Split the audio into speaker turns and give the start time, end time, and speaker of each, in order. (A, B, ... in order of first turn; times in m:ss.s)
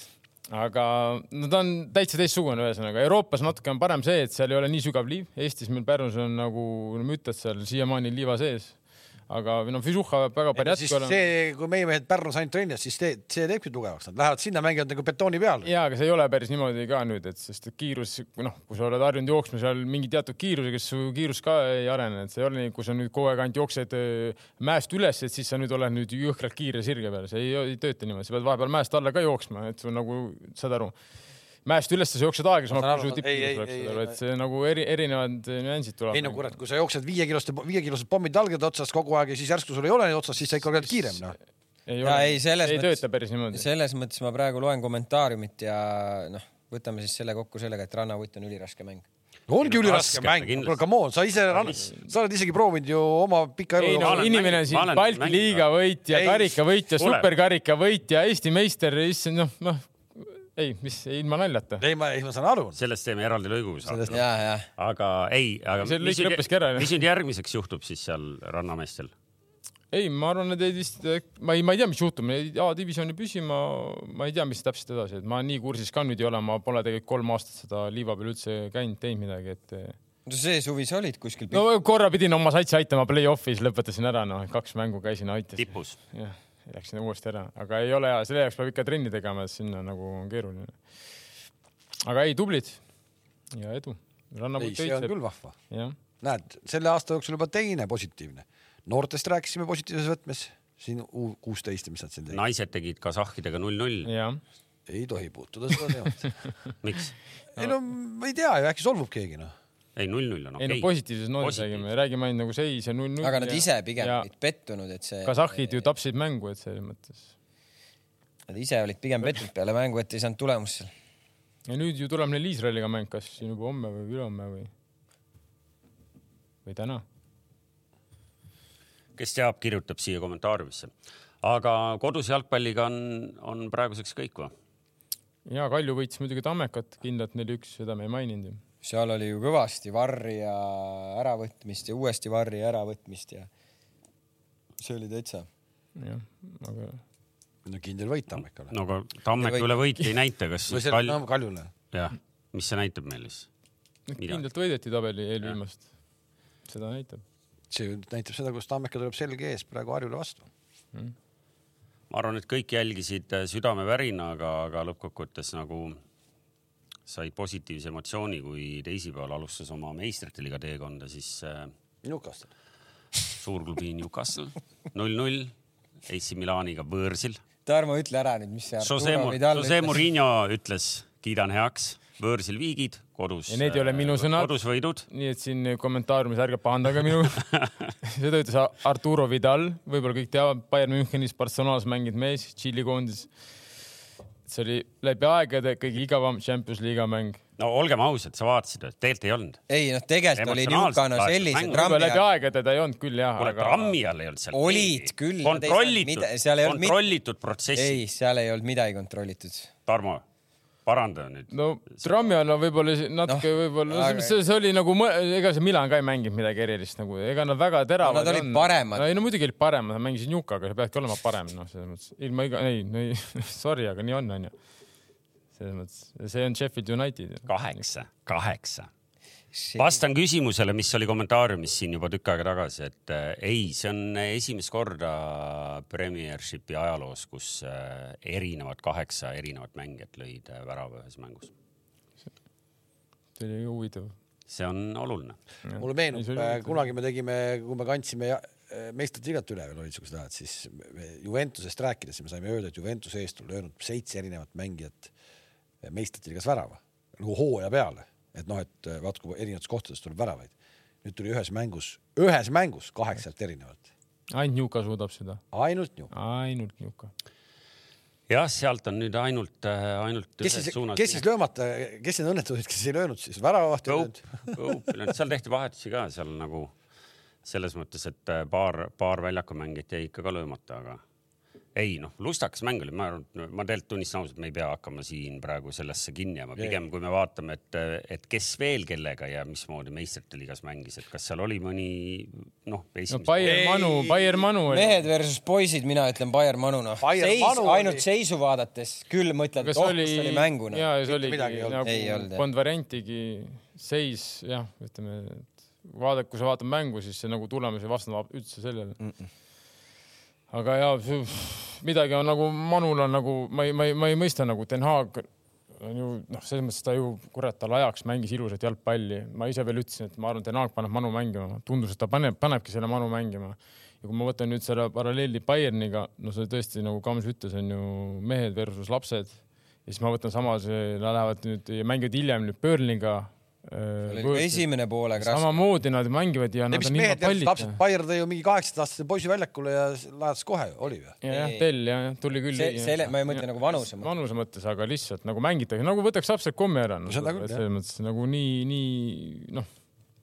0:00.5-0:08.8 A
0:09.3-0:11.2 A
0:10.5-0:15.7 B
0:15.6-0:30.9 A
0:31.6-0:36.5 A
0:32.7-0:34.2 B
0:36.1-0:41.3 B
0:40.9-0:41.2 A
0:41.9-0:43.6 A
0:42.0-0:49.0 C
0:49.5-0:54.4 B
0:49.6-0:50.8 D
0:53.8-1:01.8 A
0:54.0-0:55.7 D
0:56.1-0:56.6 B
0:57.0-0:57.3 D
1:01.8-1:02.8 B
1:02.8-1:04.2 D
1:03.9-1:04.2 B
1:04.1-1:04.7 C
1:04.8-1:09.1 D
1:05.8-1:06.9 A
1:09.9-1:19.9 A
1:20.2-1:21.6 C
1:21.5-1:30.8 A
1:25.6-1:26.0 D
1:32.0-1:32.8 A
1:33.5-1:35.1 A
1:34.6-1:35.5 B
1:35.7-1:35.9 A
1:36.2-1:42.4 B
1:42.3-1:44.1 D
1:44.0-1:44.4 A
1:44.9-1:46.3 B
1:46.8-1:47.1 D
1:47.6-1:49.5 B
1:50.0-1:51.8 D
1:50.6-1:54.2 A
1:53.2-1:55.9 C
1:55.2-1:57.2 A
1:58.5-2:00.9 C
2:01.7-2:04.7 A
2:06.6-2:07.0 A
2:09.2-2:10.9 D
2:11.4-2:14.5 D
2:15.4-2:18.6 A
2:18.8-2:23.5 C
2:24.8-2:25.5 C
2:26.0-2:27.0 A
2:27.6-2:28.7 B
2:28.7-2:31.2 D
2:29.4-2:29.7 C
2:30.7-2:31.7 B
2:31.9-2:33.5 D
2:34.1-2:35.8 A
2:34.2-2:34.4 D
2:36.7-2:37.2 A
2:37.7-2:40.5 B
2:42.1-2:46.0 D
2:47.0-2:51.7 D
2:52.0-2:52.5 B
2:53.3-2:55.5 D
2:56.1-2:57.4 D
2:57.6-3:00.0 C
2:58.8-3:05.0 D
3:03.5-3:04.5 A
3:05.1-3:07.4 A
3:08.0-3:13.3 A
3:14.5-3:17.4 A
3:17.6-3:19.6 D
3:19.7-3:22.2 C
3:20.4-3:22.0 D
3:21.7-3:23.9 A
3:23.4-3:28.0 D
3:24.5-3:27.0 C
3:27.7-3:29.7 C
3:29.9-3:30.2 D
3:30.8-3:32.0 D
3:31.5-3:44.5 A
3:33.3-3:34.4 C
3:38.0-3:39.1 C
3:45.6-3:47.8 A
3:47.5-3:48.9 D
3:49.5-3:50.0 C
3:49.8-4:01.5 D
4:03.4-4:04.1 A
4:04.5-4:05.4 D
4:05.7-4:06.8 A
4:05.8-4:15.1 B
4:15.8-4:20.5 B
4:21.0-4:23.8 B
4:24.3-4:25.4 A
4:25.5-4:26.1 B
4:26.1-4:27.1 A
4:28.3-4:31.2 D
4:30.4-4:34.6 B
4:33.9-4:36.7 D
4:37.4-4:41.0 D
4:41.7-4:53.7 D
4:53.1-4:55.0 A
4:53.4-4:54.4 B
4:54.7-5:00.8 C
4:57.0-4:58.0 B
4:59.6-5:09.0 A
5:01.1-5:01.8 B
5:01.8-5:02.4 C
5:09.0-5:09.3 C
5:10.5-5:15.3 A
5:15.8-5:34.6 A
5:34.1-5:35.6 C
5:35.2-5:37.8 A
5:36.7-5:41.2 B
5:41.2-5:49.7 A
5:41.2-5:41.7 C
5:42.5-5:44.1 C
5:47.1-5:47.6 B